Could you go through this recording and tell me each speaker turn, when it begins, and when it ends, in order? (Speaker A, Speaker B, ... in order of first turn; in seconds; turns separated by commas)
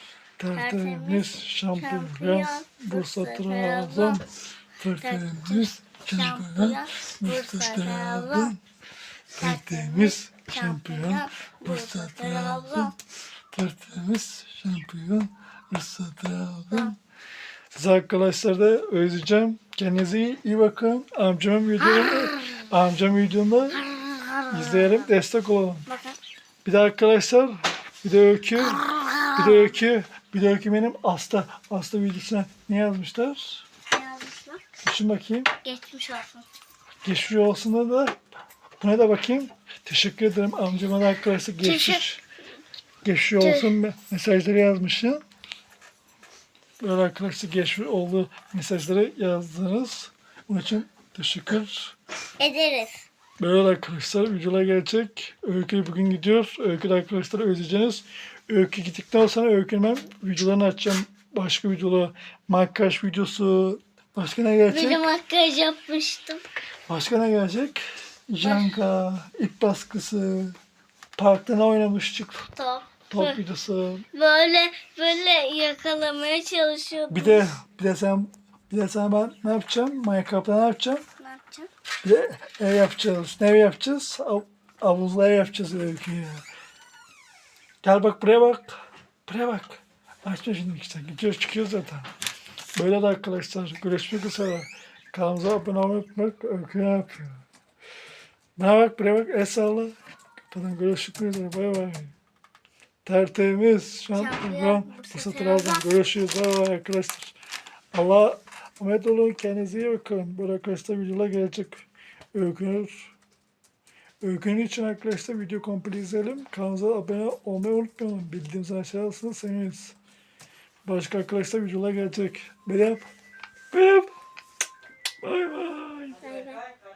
Speaker A: 0.4-4.2, Speaker B: 0.5-4.2, Speaker A: 4.8-8.6, Speaker B: 5.0-8.5, Speaker A: 9.3-12.9, Speaker B: 9.4-12.9, Speaker A: 13.5-17.0, Speaker A: 17.7-23.8, Speaker B: 21.8-22.6, Speaker B: 23.7-25.1, Speaker A: 24.5-25.9, Speaker B: 25.9-26.2, Speaker A: 26.6-33.6, Speaker B: 28.6-29.8, Speaker B: 33.9-34.6, Speaker A: 34.8-35.5, Speaker B: 35.6-36.5, Speaker A: 37.0-38.1, Speaker A: 38.8-42.2, Speaker B: 41.6-42.0, Speaker A: 43.0-45.2, Speaker B: 43.4-43.8, Speaker A: 46.8-52.0, Speaker B: 52.4-53.1, Speaker A: 53.4-65.1, Speaker B: 64.7-66.4, Speaker A: 66.9-70.6, Speaker B: 68.4-68.8, Speaker A: 71.2-72.5, Speaker B: 72.6-73.4, Speaker A: 73.1-74.0, Speaker B: 74.1-77.5, Speaker A: 77.1-81.0, Speaker B: 81.2-81.7, Speaker A: 82.0-86.4, Speaker A: 87.8-92.1, Speaker A: 92.8-97.4, Speaker A: 98.6-100.0, Speaker A: 100.5-102.1, Speaker A: 103.0-107.3, Speaker B: 104.1-105.9, Speaker A: 107.9-113.1, Speaker A: 114.2-120.0, Speaker A: 120.8-123.1, Speaker A: 123.7-124.1, Speaker A: 125.2-126.2, Speaker B: 126.2-126.7